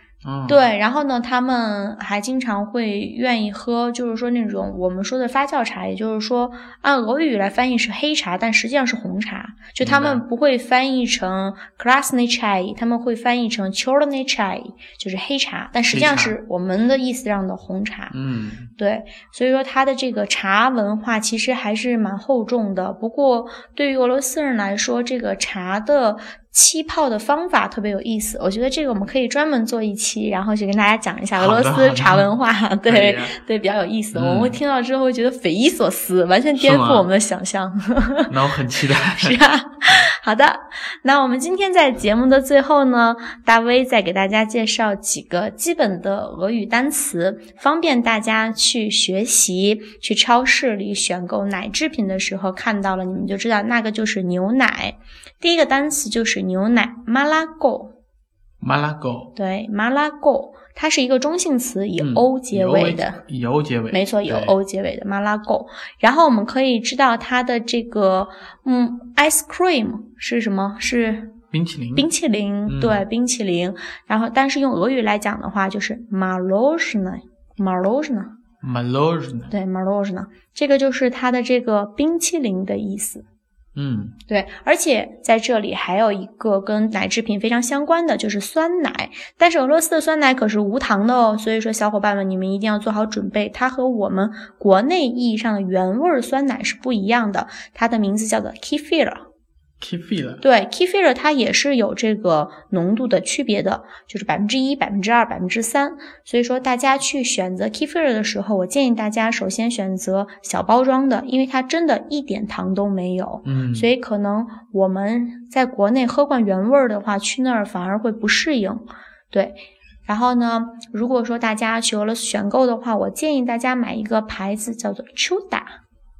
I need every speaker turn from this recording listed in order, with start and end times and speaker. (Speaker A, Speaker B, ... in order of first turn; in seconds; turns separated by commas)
Speaker A: 0.2-0.6, Speaker B: 0.5-18.1, Speaker A: 9.8-10.2, Speaker A: 15.9-16.3, Speaker A: 18.1-18.7, Speaker B: 18.8-38.3, Speaker A: 31.4-32.3, Speaker A: 32.9-33.4, Speaker A: 34.1-34.6, Speaker A: 36.6-37.1, Speaker A: 38.3-39.4, Speaker B: 39.0-57.9, Speaker A: 58.6-59.3, Speaker B: 59.3-63.2, Speaker A: 62.0-64.5, Speaker B: 63.9-71.4, Speaker A: 71.5-72.1, Speaker B: 71.9-78.3, Speaker A: 72.7-73.0, Speaker A: 78.6-79.5, Speaker B: 79.5-83.2, Speaker A: 83.8-84.2, Speaker B: 84.3-99.2, Speaker A: 99.8-100.4, Speaker B: 100.4-125.8, Speaker A: 113.4-113.9